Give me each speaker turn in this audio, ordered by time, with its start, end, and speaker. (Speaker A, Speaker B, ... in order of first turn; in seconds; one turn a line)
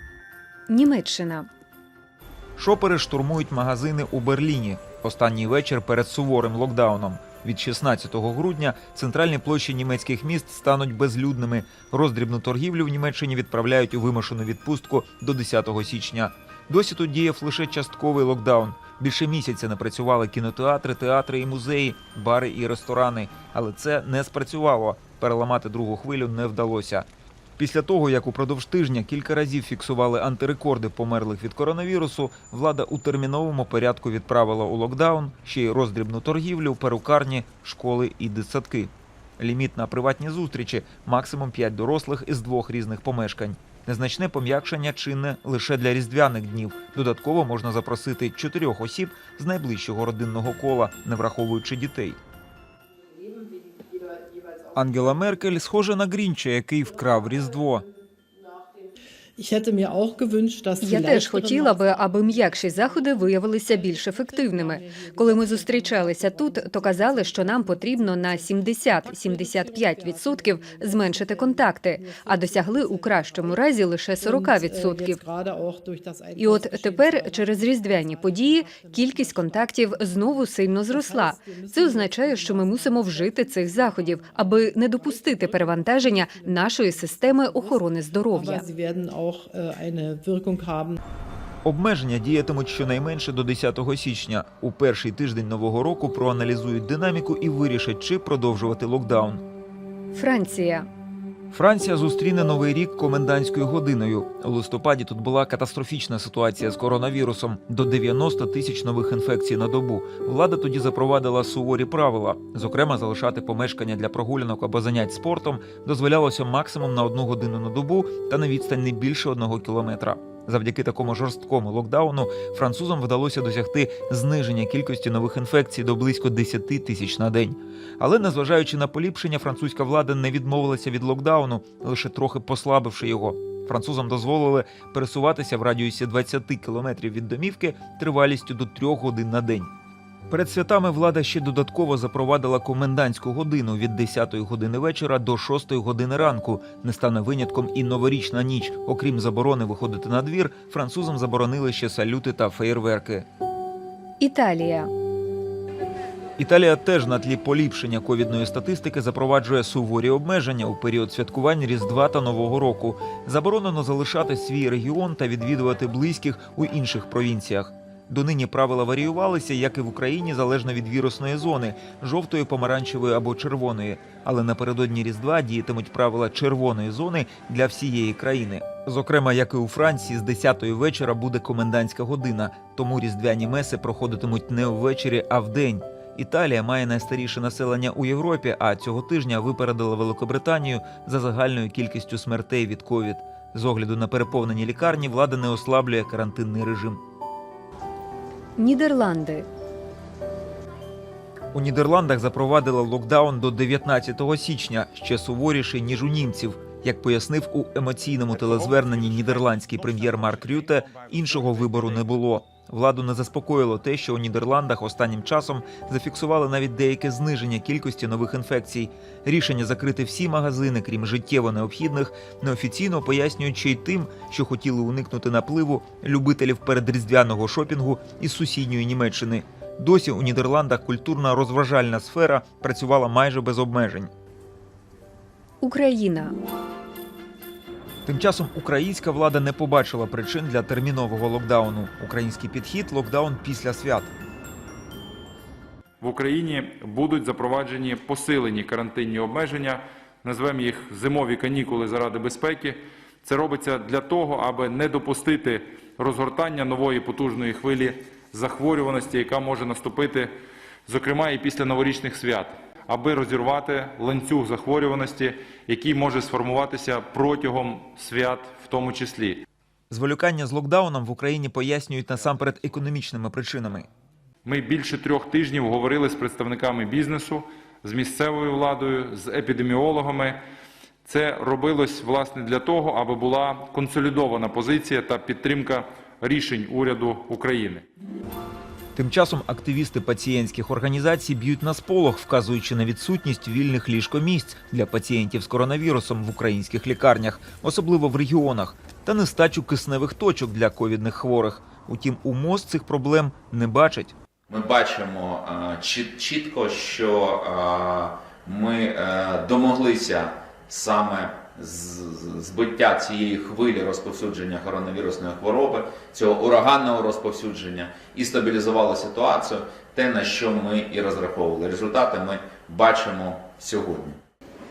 Speaker A: 0.7-1.5
Speaker B: 2.6-27.1
Speaker B: 27.6-52.2
Speaker B: 54.7-57.9
Speaker C: 59.4-91.0
Speaker A: 60.8-75.2
Speaker A: 76.4-88.6
Speaker B: 91.6-99.4
Speaker A: 100.1-100.9
Speaker B: 101.5-139.7
Speaker B: 140.3-153.2
Speaker A: 154.2-154.9
Speaker B: 156.4-197.0
Speaker A: 198.6-199.5
Speaker B: 201.5-234.1
Speaker A: 235.6-236.3
Speaker B: 238.1-244.1
Speaker D: 246.0-260.3
Speaker D: 260.9-269.4
Speaker B: 269.9-273.9
Speaker D: 274.4-280.4
Speaker D: 281.1-287.9
Speaker B: 288.9-304.1
Speaker E: 304.5-324.2